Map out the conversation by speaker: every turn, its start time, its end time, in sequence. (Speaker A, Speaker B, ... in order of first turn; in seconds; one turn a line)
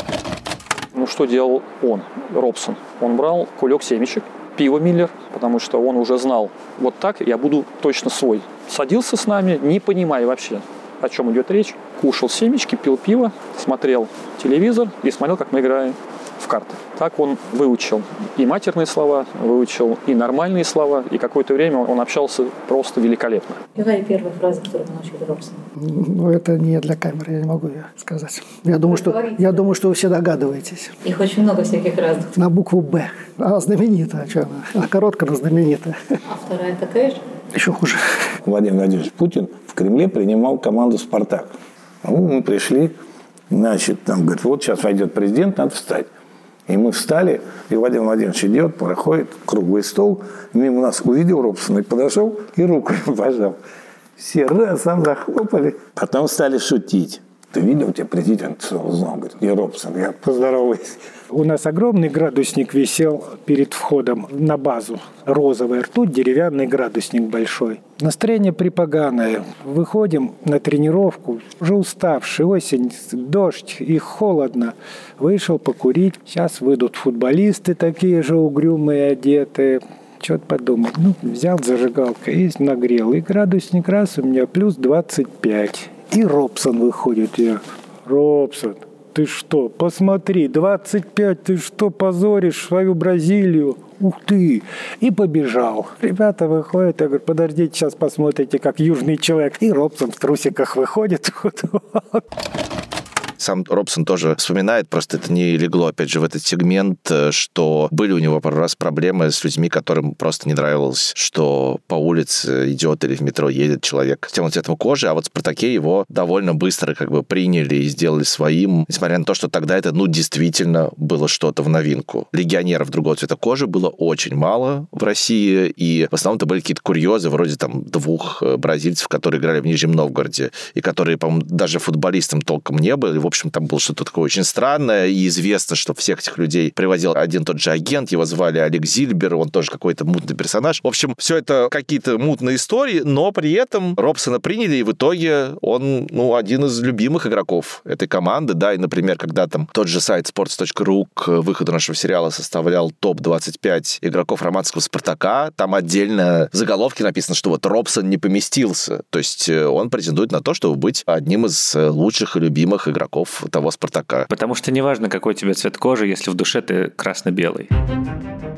Speaker A: 0.9-23.6
Speaker B: 23.8-25.6
Speaker C: 25.8-30.9
Speaker B: 28.9-29.8
Speaker B: 31.0-32.3
Speaker C: 32.3-35.9
Speaker B: 36.3-37.2
Speaker C: 37.5-38.3
Speaker D: 38.4-43.0
Speaker D: 43.5-46.1
Speaker D: 46.7-53.6
Speaker D: 54.2-61.0
Speaker E: 61.3-102.2
Speaker F: 103.4-164.3
Speaker G: 164.3-167.7